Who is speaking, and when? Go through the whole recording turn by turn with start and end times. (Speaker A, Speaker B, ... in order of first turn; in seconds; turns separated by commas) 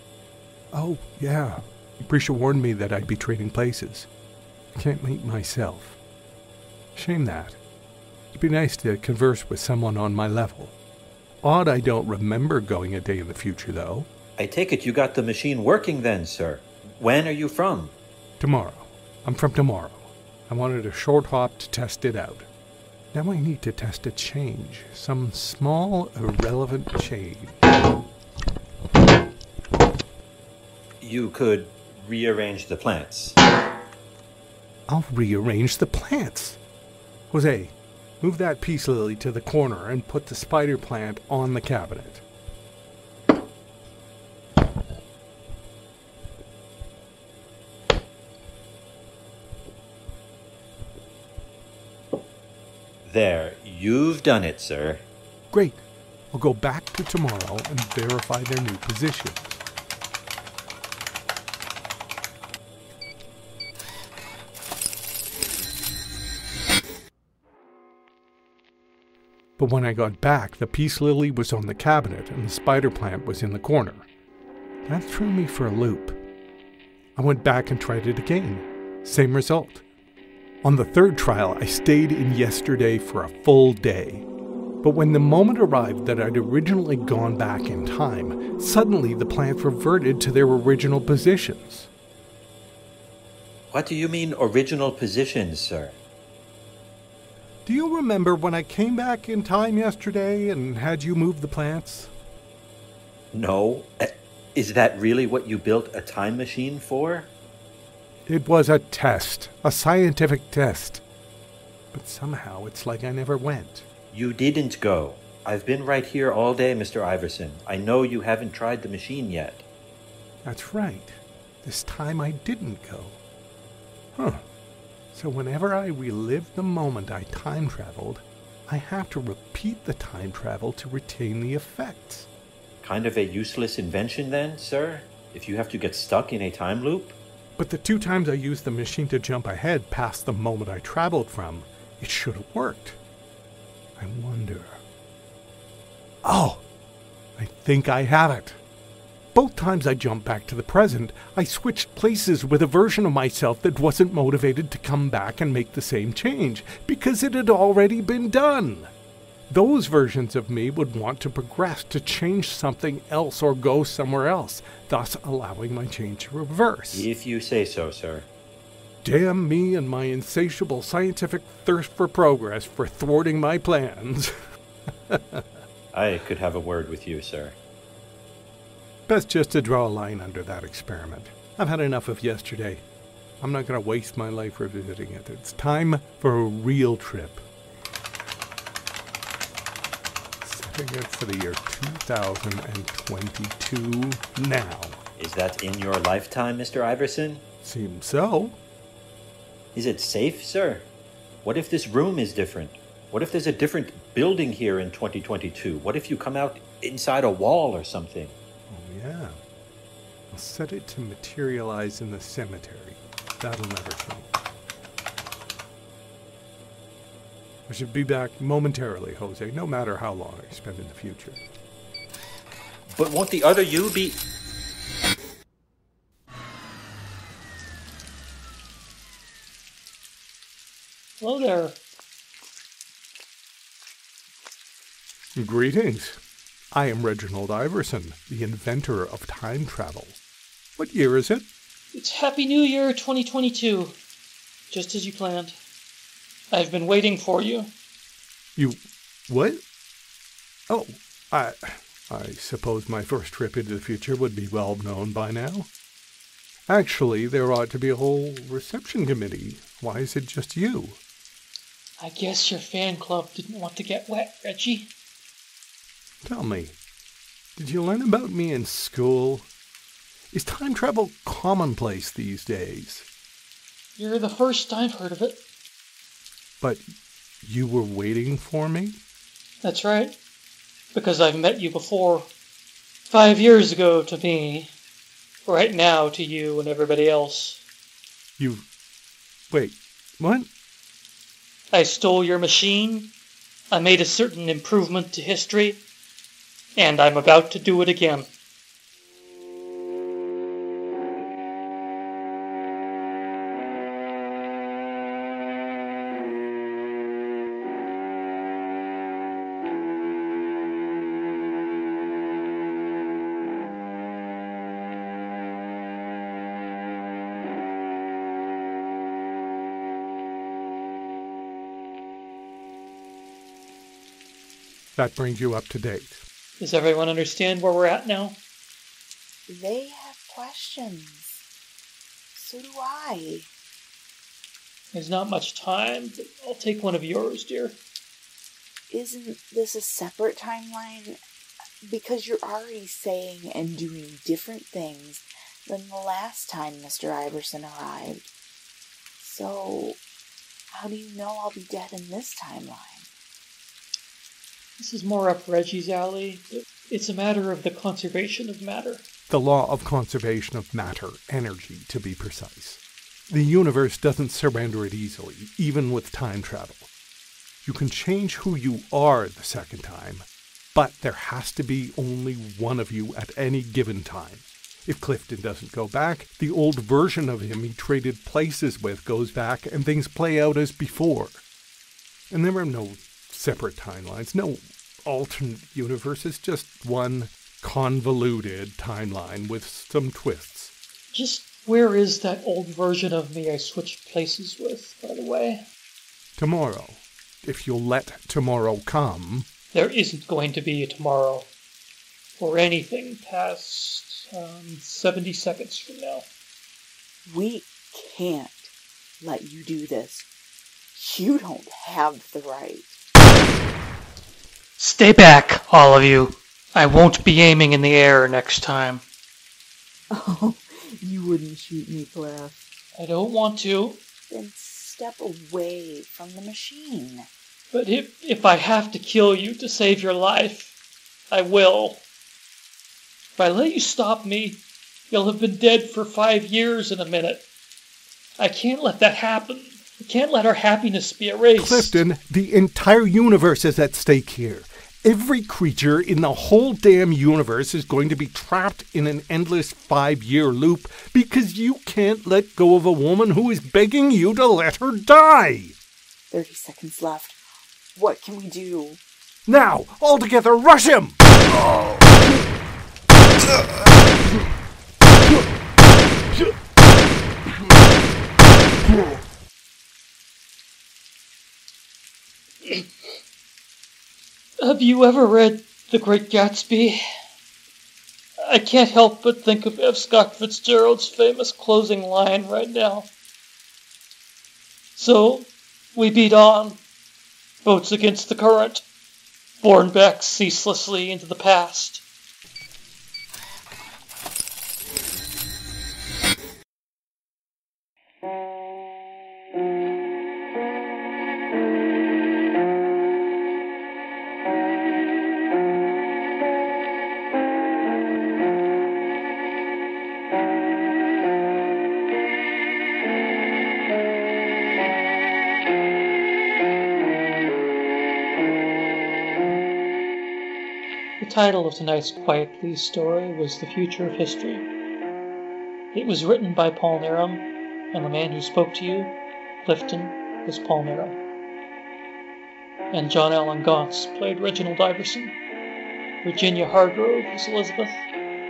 Speaker A: 0.7-4.1, Speaker A: 4.7-6.0, Speaker A: 6.9-7.6, Speaker A: 8.3-10.7, Speaker A: 11.4-14.1, Speaker B: 14.4-17.9, Speaker A: 18.4-22.5, Speaker A: 23.1-27.6, Speaker B: 31.0-33.4, Speaker A: 34.9-36.6, Speaker A: 37.3-42.2, Speaker B: 53.0-55.0, Speaker A: 55.5-59.6, Speaker A: 69.6-74.1, Speaker A: 74.8-76.2, Speaker A: 77.2-79.8, Speaker A: 80.6-84.3, Speaker A: 84.8-91.9, Speaker B: 93.7-96.0, Speaker A: 97.7-102.1, Speaker B: 103.3-107.3, Speaker A: 108.3-111.0, Speaker A: 111.9-113.9, Speaker B: 114.1-119.6, Speaker A: 120.4-123.2, Speaker A: 124.2-124.4, Speaker A: 125.1-132.3, Speaker B: 132.8-137.2, Speaker A: 137.6-143.0, Speaker A: 144.0-144.8, Speaker A: 146.2-146.6, Speaker A: 147.4-148.6, Speaker A: 149.3-158.9, Speaker A: 159.5-167.1, Speaker B: 166.9-168.3, Speaker A: 169.0-174.3, Speaker A: 175.1-175.4, Speaker B: 175.9-177.6, Speaker A: 179.1-182.8, Speaker A: 183.4-187.4, Speaker A: 190.4-195.0, Speaker B: 195.2-197.4, Speaker A: 197.6-198.6, Speaker B: 199.7-200.8, Speaker B: 201.4-208.3, Speaker A: 208.7-209.4, Speaker A: 210.3-214.3, Speaker A: 217.7-221.4, Speaker B: 222.9-224.2, Speaker C: 231.2-231.8, Speaker A: 235.3-236.2, Speaker A: 236.7-240.2, Speaker A: 240.8-241.4, Speaker C: 241.9-243.9, Speaker C: 244.7-245.6, Speaker C: 246.5-247.7, Speaker A: 248.6-249.6, Speaker A: 250.7-255.7, Speaker A: 256.7-261.0, Speaker C: 262.0-264.9, Speaker A: 266.2-266.8, Speaker A: 267.6-269.5, Speaker A: 270.3-273.1, Speaker C: 274.0-275.4, Speaker A: 277.4-279.0, Speaker C: 279.6-280.1, Speaker C: 280.9-282.3, Speaker C: 283.1-284.7, Speaker C: 285.4-287.6, Speaker A: 288.4-288.7, Speaker A: 289.5-290.5, Speaker C: 291.7-293.1, Speaker C: 293.7-295.8, Speaker C: 296.8-298.3, Speaker A: 324.9-326.2, Speaker C: 326.6-328.4, Speaker D: 329.5-331.4, Speaker D: 332.3-333.5, Speaker C: 334.9-337.8, Speaker D: 338.9-341.2, Speaker D: 341.8-348.3, Speaker D: 349.2-350.0, Speaker D: 350.7-353.1, Speaker C: 354.8-359.0, Speaker A: 359.3-366.9, Speaker A: 367.6-381.4, Speaker A: 382.3-390.7, Speaker C: 391.1-395.6, Speaker A: 396.4-399.5, Speaker C: 399.7-401.5, Speaker C: 402.4-406.3, Speaker D: 407.2-410.3, Speaker D: 410.9-412.9, Speaker C: 414.8-419.0, Speaker D: 420.1-422.6, Speaker C: 422.9-424.0, Speaker D: 424.3-427.3, Speaker C: 427.7-430.7, Speaker C: 431.3-432.0, Speaker C: 433.4-437.4, Speaker C: 438.4-442.0, Speaker A: 441.6-455.8, Speaker D: 456.3-457.4, Speaker D: 457.9-459.0, Speaker A: 459.4-462.4, Speaker A: 463.4-464.4, Speaker A: 468.8-469.2, Speaker C: 472.6-472.9, Speaker C: 474.6-477.0, Speaker C: 478.4-483.1, Speaker C: 484.9-486.8, Speaker C: 487.6-488.8, Speaker C: 489.6-492.0, Speaker C: 521.2-524.7, Speaker C: 525.9-531.2, Speaker C: 532.9-535.4, Speaker C: 536.2-538.0